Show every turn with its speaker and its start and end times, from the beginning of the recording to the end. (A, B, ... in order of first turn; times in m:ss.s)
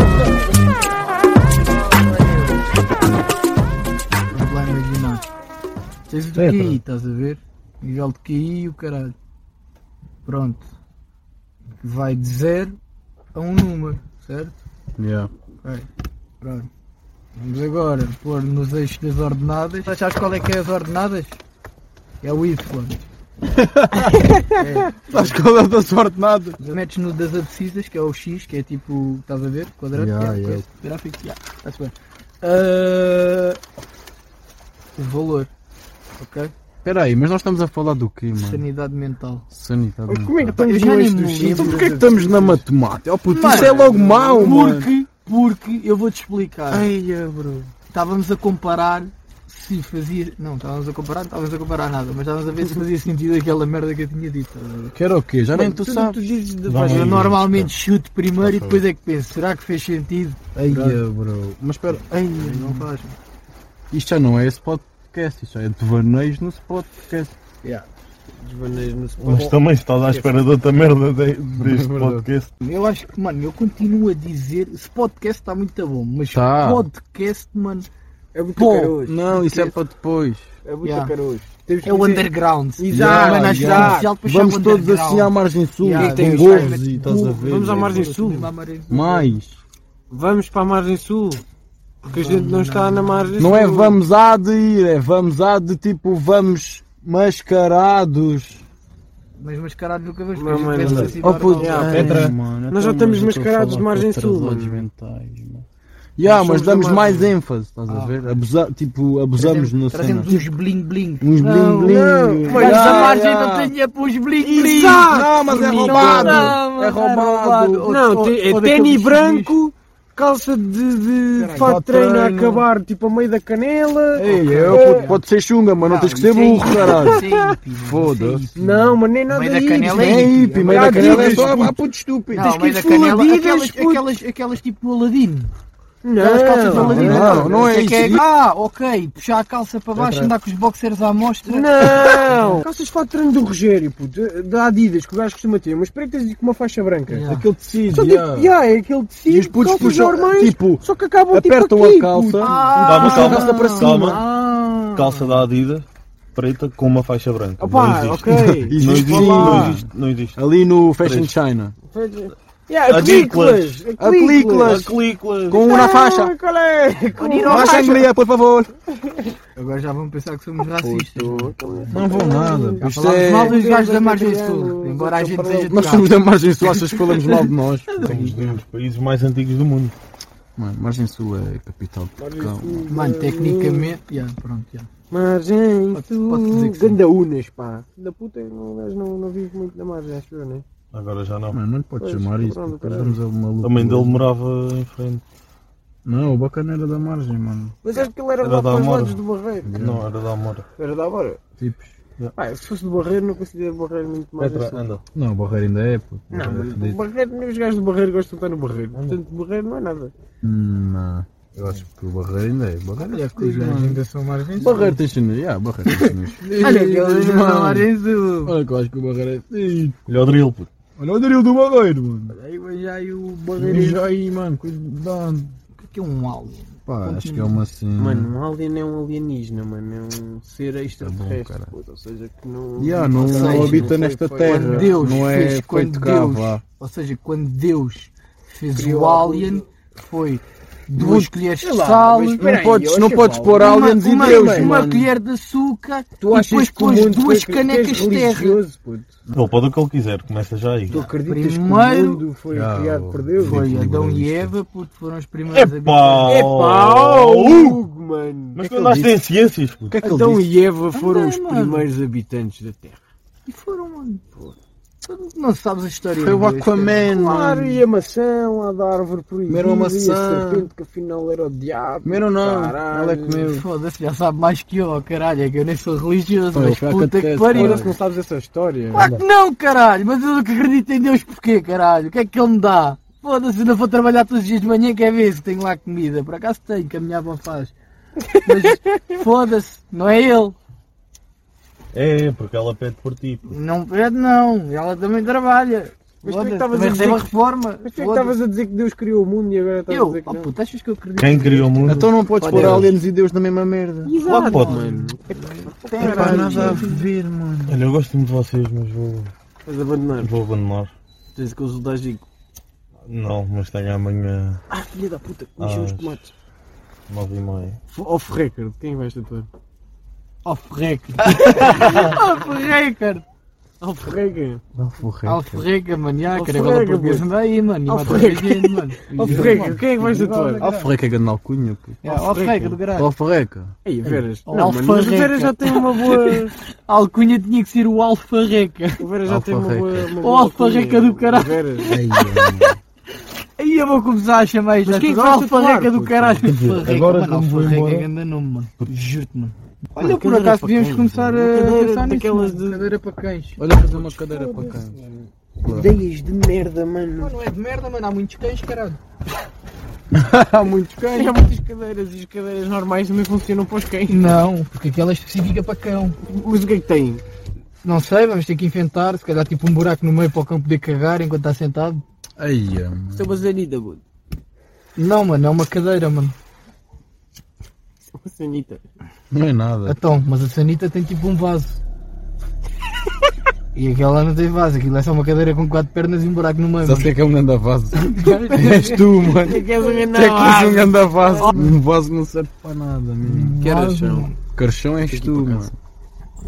0:02.0-0:02.5 A
0:04.3-0:05.2 A
0:06.1-0:09.1 A
0:06.3-0:06.8 B
0:10.2-0:10.6 A
0:11.8-0:12.8 A
0:13.3-0:14.6 A
0:15.0-0:15.3 B
0:15.6-0:15.9 A
0:16.4-0:16.7 A
0:17.4-0:21.4 A
0:22.2-0:23.0 A
0:23.4-0:24.2 B
0:24.1-0:24.5 C
0:24.5-0:25.4 A
0:25.1-0:26.6 B
0:26.6-0:33.6 A
0:29.9-0:30.6 B
0:35.0-0:35.5 A
0:36.2-0:36.5 A
0:36.8-0:38.6 B
0:38.4-0:39.4 A
0:39.5-0:40.6 B
0:40.1-0:42.5 C
0:40.6-0:42.6 A
0:41.4-0:44.9 B
0:43.3-0:43.7 A
0:43.4-0:44.7 C
0:44.4-0:46.9 A
0:46.7-0:47.7 B
0:47.9-0:54.9 A
0:54.9-0:56.2 B
0:55.5-0:57.1 C
0:56.7-0:57.3 D
0:56.8-0:57.7 B
0:56.8-1:01.0 A
0:58.5-0:58.8 B
1:00.6-1:02.9 B
1:02.3-1:03.1 A
1:03.9-1:07.3 B
1:08.4-1:10.4 C
1:09.2-1:12.5 D
1:11.6-1:12.2 B
1:12.6-1:17.9 A
1:16.3-1:16.8 B
1:18.3-1:19.2 C
1:18.6-1:19.7 A
1:19.0-1:20.5 B
1:20.6-1:24.1 C
1:20.8-1:21.1 A
1:21.8-1:29.4 A
1:22.9-1:28.1 B
1:26.0-1:28.5 C
1:28.9-1:29.6 B
1:30.1-1:31.4 C
1:32.0-1:33.4 A
1:32.0-1:34.0 C
1:33.4-1:38.6 B
1:39.4-1:42.2 A
1:40.3-1:44.8 C
1:41.1-1:45.6 B
1:46.2-1:50.5 B
1:46.2-1:47.3 C
1:47.9-1:48.2 A
1:49.4-1:55.2 A
1:51.2-1:53.7 B
1:51.8-1:53.2 C
1:54.4-1:56.6 C
1:55.0-1:57.9 B
1:55.7-1:59.6 A
1:57.8-2:05.0 C
2:01.4-2:01.8 A
2:01.6-2:02.6 B
2:04.2-2:05.2 A
2:04.2-2:07.2 B
2:05.8-2:08.7 A
2:06.7-2:07.5 C
2:07.8-2:08.5 B
2:08.5-2:11.7 C
2:09.3-2:11.7 A
2:09.8-2:12.5 B
2:12.3-2:15.5 A
2:12.3-2:14.0 C
2:16.0-2:17.6 C
2:16.2-2:22.6 A
2:16.7-2:18.2 B
2:20.0-2:20.3 B
2:21.5-2:27.3 C
2:27.1-2:27.4 A
2:27.3-2:28.5 B
2:27.9-2:33.1 C
2:29.3-2:35.1 B
2:32.4-2:35.4 A
2:32.8-2:34.2 D
2:34.9-2:40.4 D
2:37.6-2:39.7 C
2:38.3-2:41.7 B
2:41.0-2:41.3 D
2:41.9-2:44.9 C
2:42.9-2:43.8 D
2:44.0-2:44.9 B
2:44.6-2:45.7 D
2:45.5-2:46.3 B
2:45.5-2:48.0 C
2:47.2-2:48.0 A
2:47.4-2:48.7 B
2:48.9-2:49.3 C
2:49.6-2:52.0 A
2:50.7-2:56.0 C
2:51.9-2:53.6 B
2:52.8-2:56.1 A
2:55.7-2:58.6 B
2:56.6-2:57.5 C
2:58.0-2:58.3 A
2:58.0-2:59.9 D
3:00.6-3:02.8 B
3:02.2-3:03.9 C
3:02.9-3:04.9 A
3:05.1-3:10.6 C
3:05.9-3:07.0 A
3:10.9-3:11.6 D
3:11.5-3:14.2 B
3:12.0-3:13.2 C
3:13.6-3:15.2 D
3:16.0-3:17.7 B
3:17.8-3:19.7 C
3:18.4-3:19.2 D
3:19.6-3:20.0 B
3:19.7-3:20.6 D
3:20.8-3:21.4 C
3:21.6-3:22.0 B
3:22.4-3:24.8 C
3:24.4-3:25.0 D
3:25.1-3:27.0 B
3:26.3-3:30.1 C
3:28.9-3:29.2 D
3:30.4-3:34.0 B
3:33.0-3:35.0 A
3:34.6-3:37.9 B
3:35.9-3:38.6 A
3:36.4-3:37.2 C
3:38.4-3:40.0 B
3:40.1-3:40.7 D
3:41.0-3:42.4 B
3:42.4-3:44.0 A
3:43.6-3:45.6 B
3:45.8-3:47.6 A
3:46.8-3:48.3 B
3:48.0-3:55.2 C
3:51.0-3:51.7 B
3:52.8-3:56.6 B
3:53.3-4:02.4 A
3:58.7-3:59.6 C
4:01.0-4:04.8 C
4:02.4-4:05.1 B
4:03.6-4:08.6 A
4:06.2-4:09.1 C
4:09.3-4:11.0 D
4:10.9-4:13.6 C
4:10.9-4:12.2 A
4:12.5-4:14.5 B
4:13.4-4:16.4 A
4:15.5-4:17.8 D
4:16.2-4:18.9 C
4:18.6-4:20.0 D
4:18.7-4:19.1 A
4:19.9-4:20.4 B
4:20.0-4:23.0 C
4:20.9-4:21.8 A
4:23.4-4:24.2 A
4:25.0-4:27.1 A
4:26.2-4:27.8 B
4:27.1-4:33.5 C
4:29.5-4:30.7 B
4:32.0-4:33.6 B
4:33.5-4:37.8 A
4:36.5-4:38.0 B
4:37.5-4:39.1 C
4:38.9-4:47.7 A
4:48.3-4:49.2 C
4:48.4-4:50.6 A
4:51.9-4:53.5 D
4:53.5-4:58.3 A
4:56.2-4:57.3 C
4:57.8-5:00.5 C
4:59.9-5:02.9 A
5:01.2-5:02.9 D
5:01.8-5:04.2 B
5:04.0-5:06.9 C
5:04.2-5:05.1 D
5:04.3-5:07.1 A
5:06.0-5:07.8 B
5:06.2-5:06.8 D
5:07.7-5:09.3 D
5:09.6-5:10.3 C
5:10.2-5:10.9 D
5:11.4-5:12.2 C
5:13.1-5:14.6 D
5:14.7-5:16.3 C
5:15.6-5:16.2 D
5:17.1-5:17.8 D
5:17.9-5:19.5 C
5:20.4-5:22.5 C
5:21.2-5:23.2 A
5:23.8-5:24.6 C
5:24.7-5:25.6 B
5:25.2-5:30.9 A
5:26.3-5:27.3 C
5:27.8-5:30.7 C
5:29.2-5:29.8 B
5:30.6-5:32.1 B
5:32.0-5:33.1 A
5:32.1-5:32.8 C
5:32.9-5:34.2 B
5:33.8-5:36.5 C
5:34.5-5:39.0 A
5:39.0-5:42.0 C
5:39.2-5:40.1 B
5:40.2-5:42.6 A
5:41.9-5:42.8 B
5:43.6-5:53.6 A
5:44.8-5:46.1 C
5:46.0-5:46.4 B
5:46.4-5:48.1 D
5:50.0-5:52.9 C
5:53.6-5:55.0 B
5:53.8-5:57.3 C
5:55.6-5:56.0 B
5:57.2-5:59.0 A
6:00.1-6:01.3 B
6:01.1-6:04.4 C
6:04.1-6:06.2 A
6:06.2-6:07.2 C
6:07.8-6:12.0 A
6:12.4-6:13.4 B
6:13.1-6:14.0 C
6:15.0-6:16.3 A
6:18.0-6:18.8 C
6:19.3-6:20.0 B
6:19.9-6:21.8 A
6:23.7-6:27.1 A
6:26.8-6:33.6 B
6:28.0-6:29.0 A
6:28.6-6:31.5 C
6:31.2-6:31.8 A
6:33.2-6:34.4 A
6:33.6-6:34.3 C
6:34.6-6:35.8 B
6:35.1-6:35.7 C